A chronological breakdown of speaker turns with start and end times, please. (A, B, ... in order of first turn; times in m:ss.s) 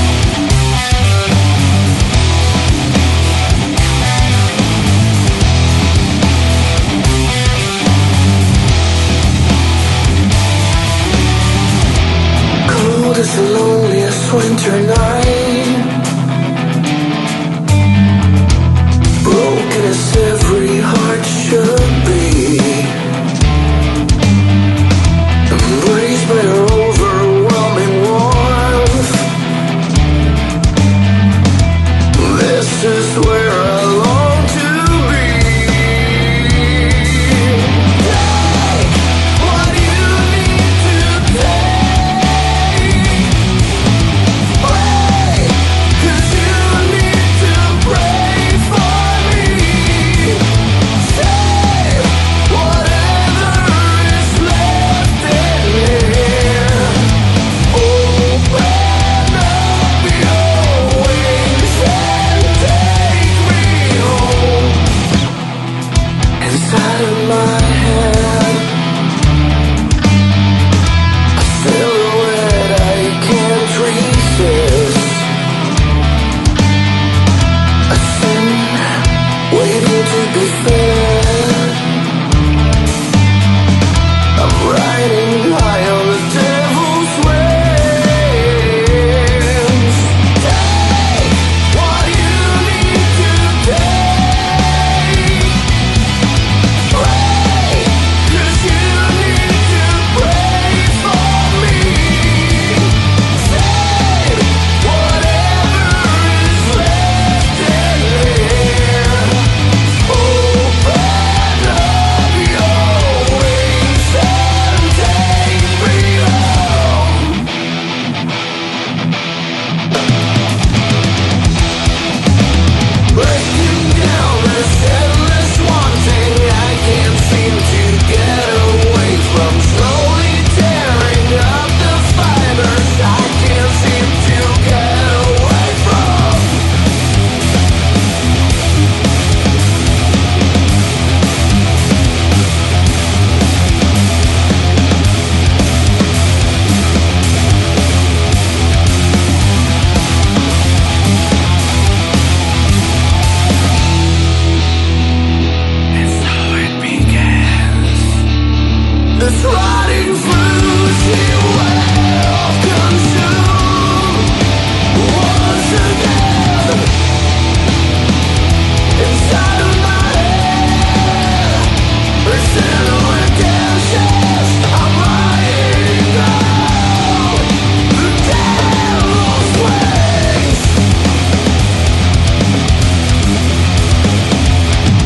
0:12.6-0:15.9 A
0:19.2-0:23.0 A
0:25.5-0:29.3 A
0:32.1-0:43.3 A
0:44.4-0:57.1 A
0:57.7-1:04.9 A
1:06.4-1:08.7 A
1:11.4-1:15.3 A
1:17.9-1:21.8 A
1:24.4-1:35.6 A
1:36.9-1:57.5 A
2:03.1-2:16.6 A
2:35.9-2:38.2 A
2:39.2-2:44.4 A
2:44.9-2:46.9 A
2:49.0-2:51.7 A
2:52.2-3:00.8 A